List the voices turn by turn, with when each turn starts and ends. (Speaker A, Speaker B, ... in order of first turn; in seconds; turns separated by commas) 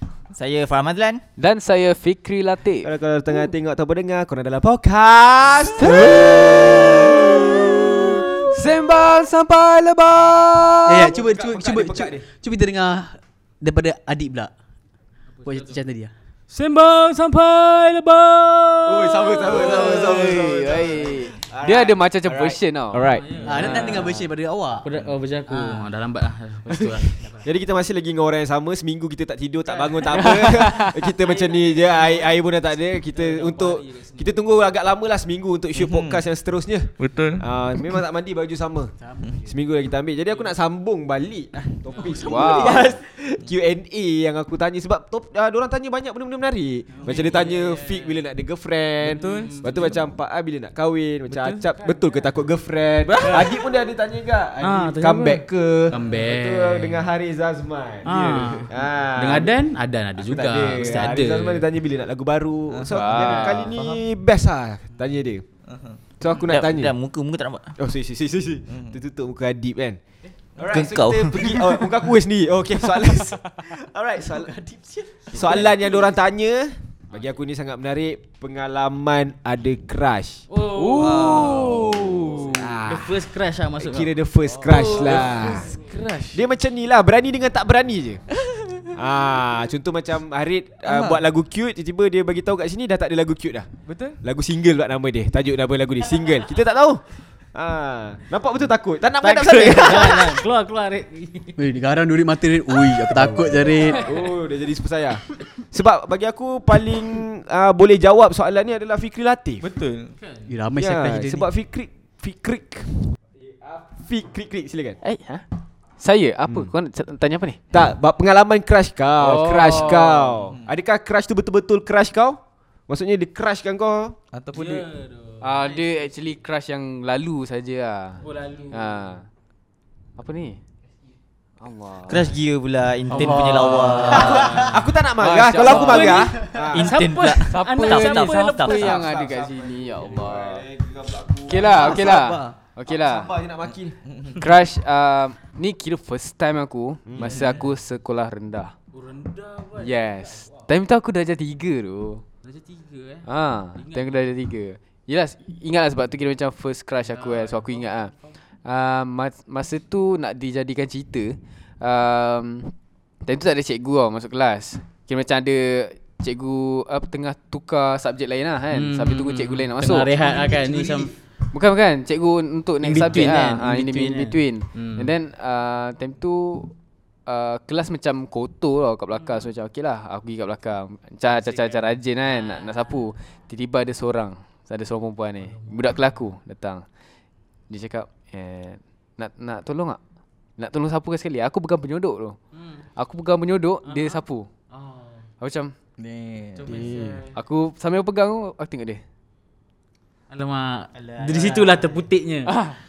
Speaker A: 0.3-1.2, Speaker B: 1.4-2.9, Speaker C: 2.8-8.3, Speaker B: 5.8-11.1, Speaker D: 10.9-14.5, Speaker C: 11.0-12.2, Speaker E: 15.4-15.8, Speaker D: 15.4-16.1, Speaker E: 16.5-20.3, Speaker C: 18.9-23.9, Speaker B: 19.5-23.1, Speaker E: 23.1-24.2, Speaker D: 23.4-24.9, Speaker B: 23.6-24.2, Speaker E: 24.8-27.5, Speaker D: 25.5-25.8, Speaker C: 27.4-38.9, Speaker E: 29.6-32.5, Speaker B: 30.1-31.0, Speaker E: 33.1-34.4, Speaker F: 35.8-36.2, Speaker F: 37.0-37.5, Speaker C: 39.5-59.6, Speaker E: 41.8-43.0, Speaker B: 42.2-42.9, Speaker E: 46.9-48.3, Speaker E: 49.0-49.9, Speaker F: 49.1-50.0, Speaker F: 51.3-51.7, Speaker E: 51.7-52.4, Speaker F: 53.1-53.6, Speaker E: 53.2-53.7, Speaker E: 54.6-57.1, Speaker E: 58.0-61.7, Speaker C: 60.2-65.4, Speaker A: 60.8-61.2, Speaker F: 62.7-64.0, Speaker B: 62.9-63.7, Speaker F: 65.7-66.0, Speaker C: 66.2-67.0, Speaker A: 66.5-67.7, Speaker C: 67.8-70.0, Speaker F: 68.7-69.0, Speaker C: 70.6-74.5, Speaker A: 70.7-71.9, Speaker E: 74.2-75.7, Speaker C: 75.3-80.5, Speaker E: 80.5-85.7, Speaker B: 80.7-82.5, Speaker F: 80.9-82.5, Speaker C: 82.5-83.2, Speaker C: 83.8-85.7, Speaker F: 84.7-86.5, Speaker C: 86.3-88.2, Speaker F: 88.4-88.9, Speaker C: 88.9-93.7, Speaker F: 90.8-91.2, Speaker F: 93.9-94.2, Speaker C: 94.2-97.0, Speaker C: 97.5-100.4, Speaker E: 99.2-101.6, Speaker D: 101.6-104.1, Speaker C: 103.1-109.7, Speaker E: 103.8-104.4, Speaker F: 109.6-110.1, Speaker E: 110.2-110.5, Speaker D: 110.5-111.5, Speaker C: 110.8-115.0, Speaker B: 115.0-115.4, Speaker B: 116.0-117.6, Speaker C: 117.7-124.2, Speaker B: 119.2-120.4, Speaker F: 124.3-124.9, Speaker E: 124.5-126.2, Speaker B: 125.4-129.2, Speaker E: 128.2-129.1, Speaker B: 130.2-130.6, Speaker B: 131.6-132.3, Speaker A: 132.1-134.6, Speaker E: 133.1-134.9, Speaker B: 133.1-136.3, Speaker C: 134.1-136.9, Speaker E: 135.6-139.1, Speaker A: 136.7-138.8, Speaker B: 137.5-140.7, Speaker C: 138.7-144.0, Speaker B: 141.5-143.3, Speaker F: 143.7-144.4, Speaker B: 144.4-148.7, Speaker C: 147.1-147.4, Speaker F: 147.3-147.7, Speaker E: 148.9-150.7, Speaker B: 149.8-152.2, Speaker E: 152.4-154.3, Speaker B: 153.2-158.1, Speaker E: 157.0-158.3, Speaker B: 158.6-162.7, Speaker B: 163.2-170.5, Speaker E: 168.7-171.1, Speaker B: 171.5-176.7, Speaker E: 172.8-175.1, Speaker B: 177.3-186.8, Speaker E: 181.3-183.1, Speaker E: 185.4-186.2, Speaker B: 187.7-190.0, Speaker B: 190.6-192.4, Speaker E: 192.5-192.9, Speaker B: 193.0-194.5, Speaker E: 193.8-195.3, Speaker B: 195.4-195.7, Speaker F: 196.0-196.9, Speaker E: 196.6-197.3, Speaker B: 196.7-199.0, Speaker E: 200.3-202.5, Speaker A: 200.9-202.1, Speaker B: 202.4-202.8